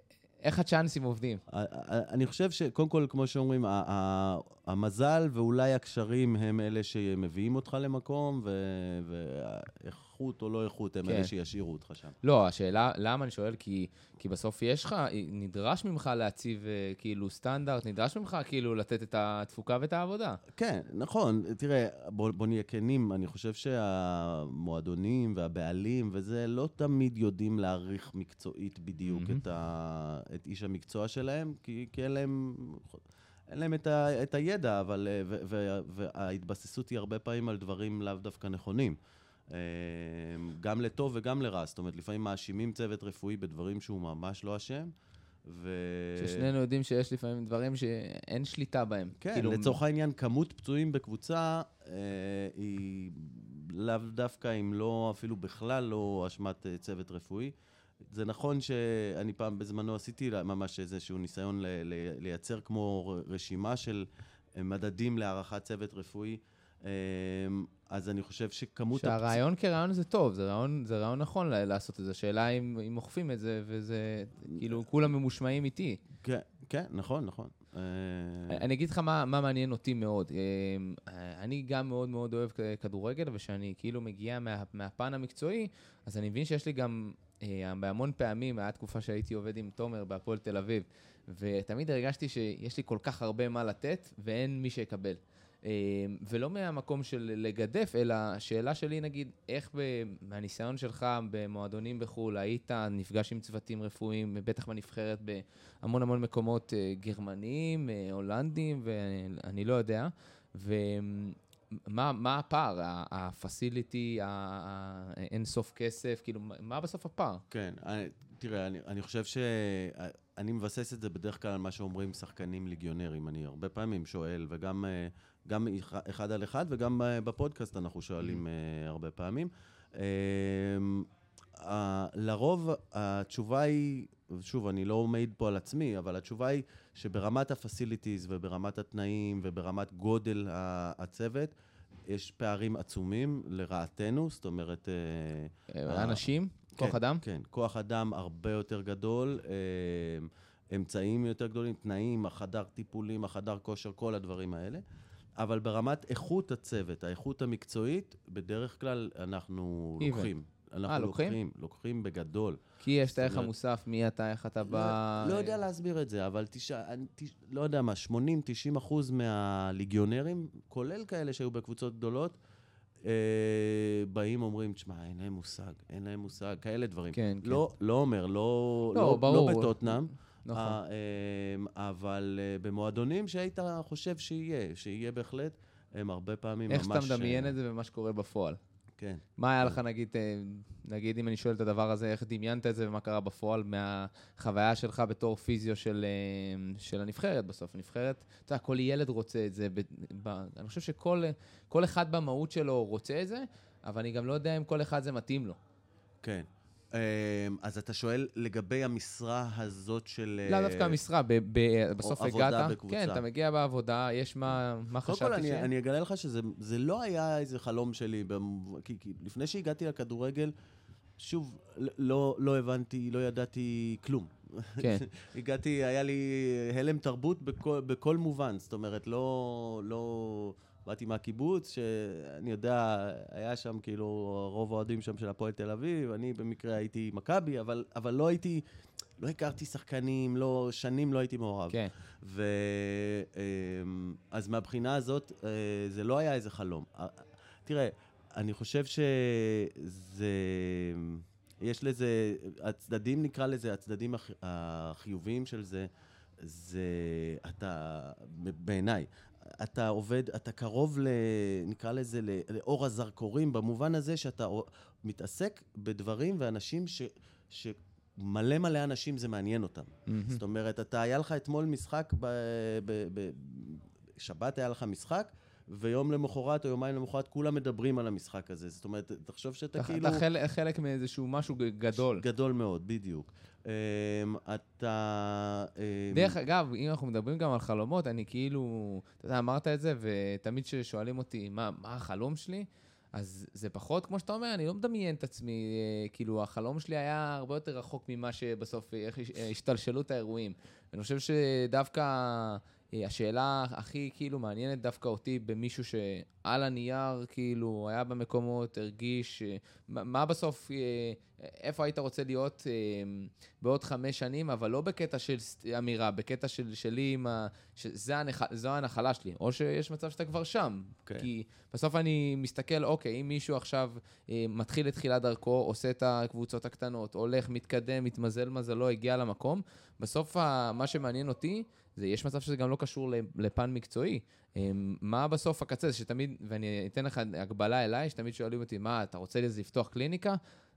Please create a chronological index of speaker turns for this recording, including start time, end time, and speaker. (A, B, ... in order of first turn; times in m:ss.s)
0:00.4-0:01.4 A
0:01.5-0:12.1 B
0:11.0-0:11.3 A
0:12.2-0:20.4 A
0:20.5-0:39.0 B
0:29.0-0:29.4 A
0:39.5-0:44.9 B
0:45.4-0:46.5 B
0:46.2-0:49.8 A
0:49.2-0:57.5 B
0:58.0-1:09.4 B
1:09.0-1:16.0 A
1:16.2-1:18.6 B
1:18.5-1:57.4 A
1:57.5-2:21.5 B
2:22.1-2:26.2 B
2:25.7-2:27.2 A
2:26.8-2:34.8 B
2:35.4-2:43.5 B
2:40.0-2:40.3 A
2:40.9-2:41.4 A
2:42.8-2:45.6 A
2:44.6-2:52.4 B
2:53.0-3:07.5 B
2:57.1-2:57.6 A
2:58.9-3:00.8 A
3:06.7-3:08.6 A
3:09.0-3:09.8 B
3:09.4-3:25.6 A
3:26.2-3:31.0 B
3:30.5-3:35.7 A
3:32.0-3:33.2 B
3:34.6-3:40.5 B
3:41.2-3:58.6 B
3:59.2-4:15.9 B
4:16.4-4:40.2 B
4:30.1-4:30.4 A
4:39.8-4:42.2 A
4:41.9-4:46.4 B
4:46.1-5:40.4 A